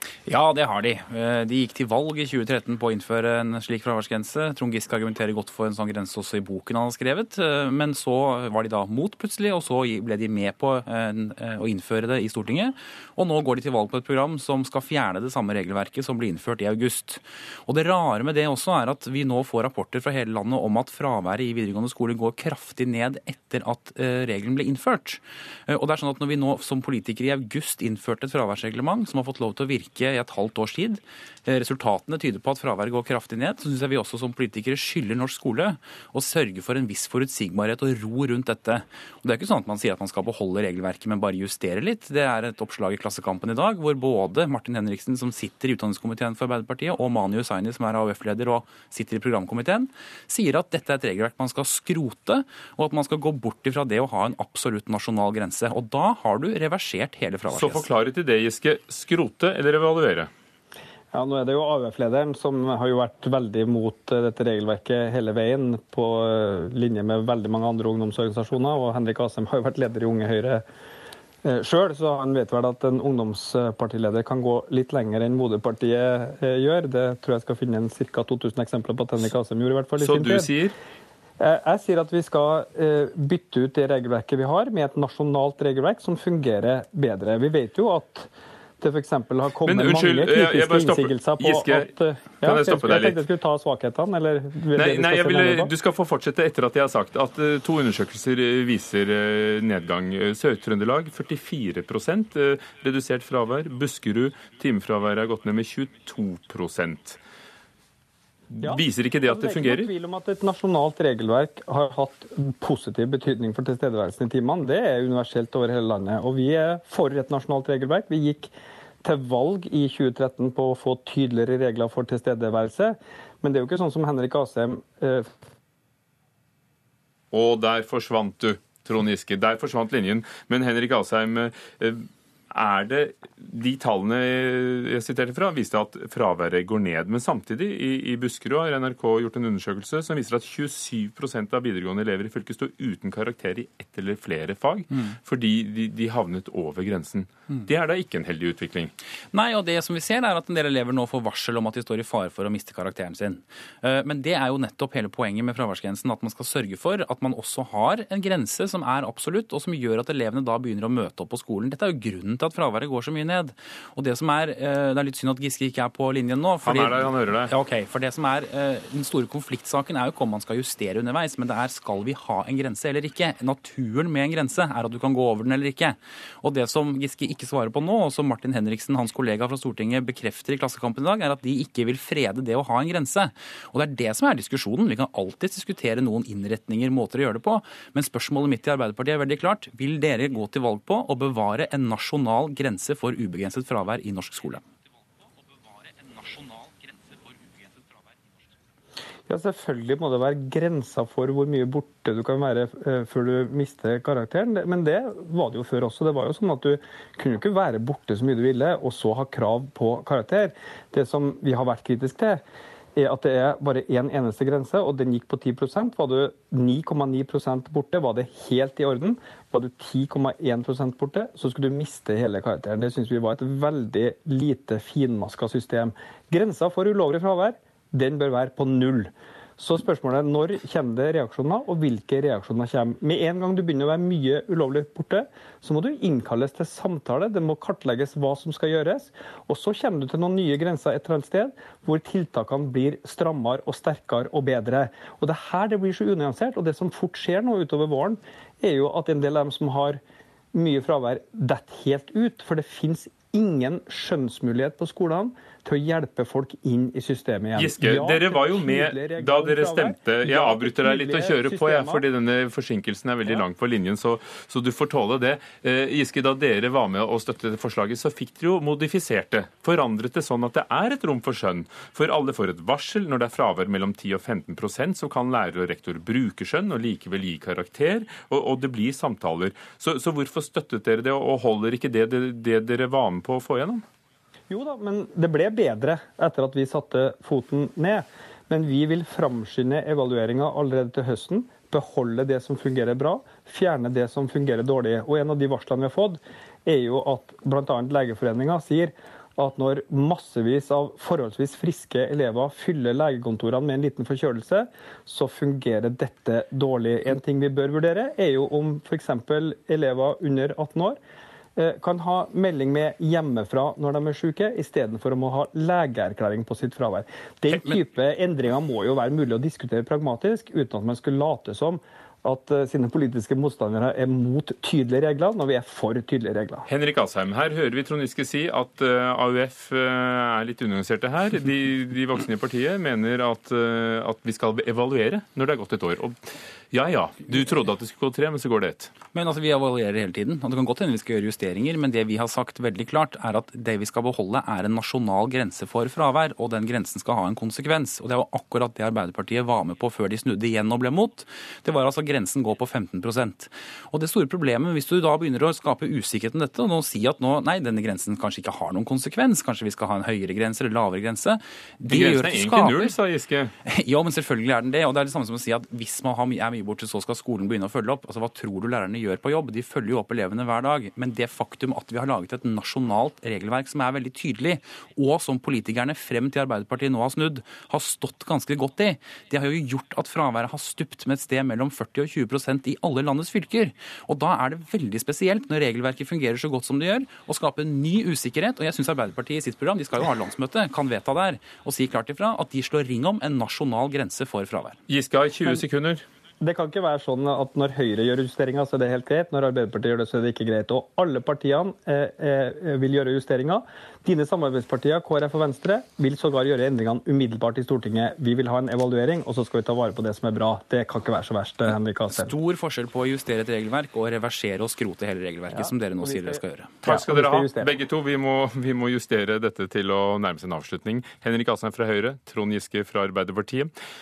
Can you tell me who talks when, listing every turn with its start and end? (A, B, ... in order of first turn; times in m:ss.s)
0:00.3-0:57.8 A
0:57.5-1:00.3 B
1:01.1-1:10.6 C
1:11.4-1:20.5 C
1:20.0-1:20.7 B
1:21.4-1:35.7 C
1:29.6-1:33.2 B
1:34.7-1:47.2 B
1:48.6-1:49.9 B
1:48.6-1:58.5 C
1:59.0-2:05.3 C
2:07.3-2:28.9 B
2:29.3-3:14.6 A
2:46.6-2:47.5 B
3:16.0-3:16.8 A
3:19.3-3:32.4 C
3:33.0-4:10.0 C
4:10.5-4:22.0 C
4:17.5-4:43.8 B
4:44.5-5:11.0 C
5:11.6-5:26.7 C
5:17.5-5:17.8 A
5:26.7-5:38.9 B
5:39.1-6:02.9 A
6:01.8-6:03.5 B
6:03.6-6:34.8 A
6:34.9-6:36.0 B
6:36.4-6:52.3 C
6:51.7-6:56.8 A
6:55.5-6:57.7 C
6:56.8-7:03.7 B